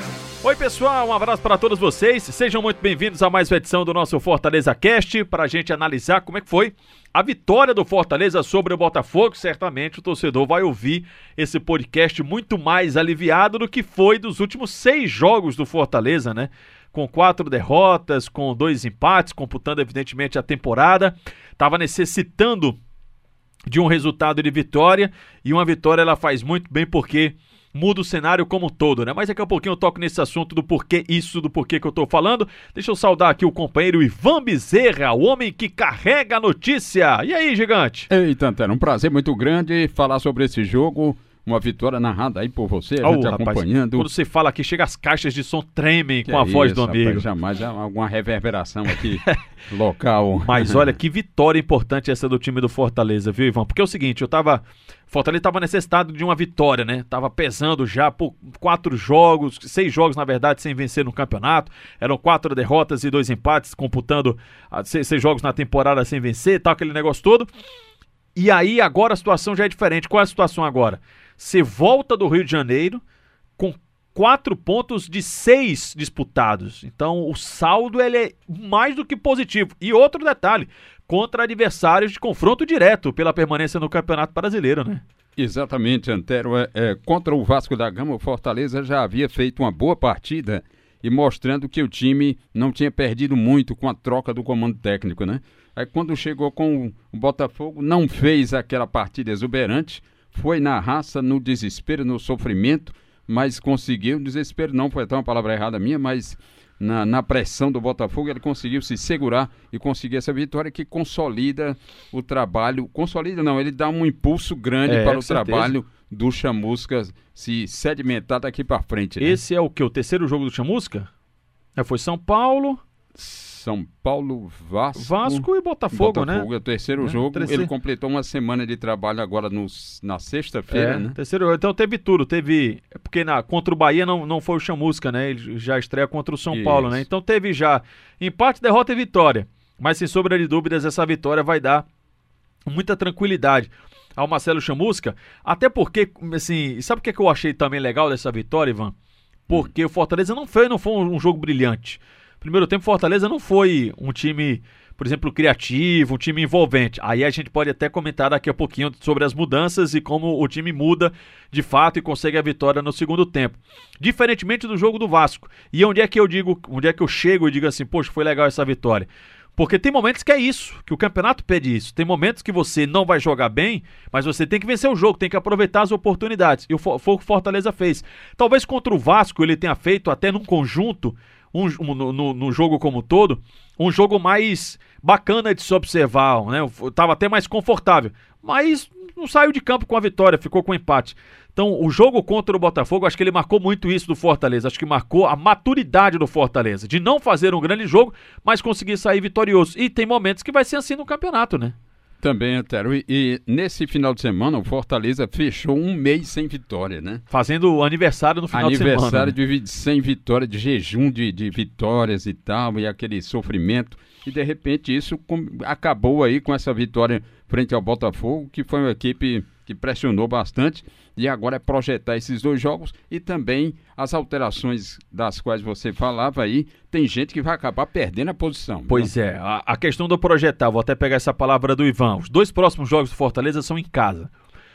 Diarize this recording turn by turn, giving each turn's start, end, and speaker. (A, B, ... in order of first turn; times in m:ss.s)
0:00.4-0:22.8 A
0:23.7-0:38.1 A
0:38.1-0:44.1 B
0:43.0-0:47.3 A
0:46.2-0:50.9 B
0:48.9-0:49.4 A
0:50.4-1:07.5 A
1:08.3-1:13.0 A
1:13.6-1:25.0 A
1:25.4-1:59.4 B
1:54.8-1:55.8 A
1:59.2-2:01.1 A
2:01.8-2:02.8 A
2:03.2-2:11.2 B
2:05.0-2:07.7 A
2:10.7-2:21.9 A
2:16.5-2:17.0 B
2:22.7-2:28.9 A
2:29.5-3:21.8 A
3:22.2-3:27.2 B
3:27.3-3:29.4 A
3:28.5-3:49.1 B
3:48.9-3:54.3 A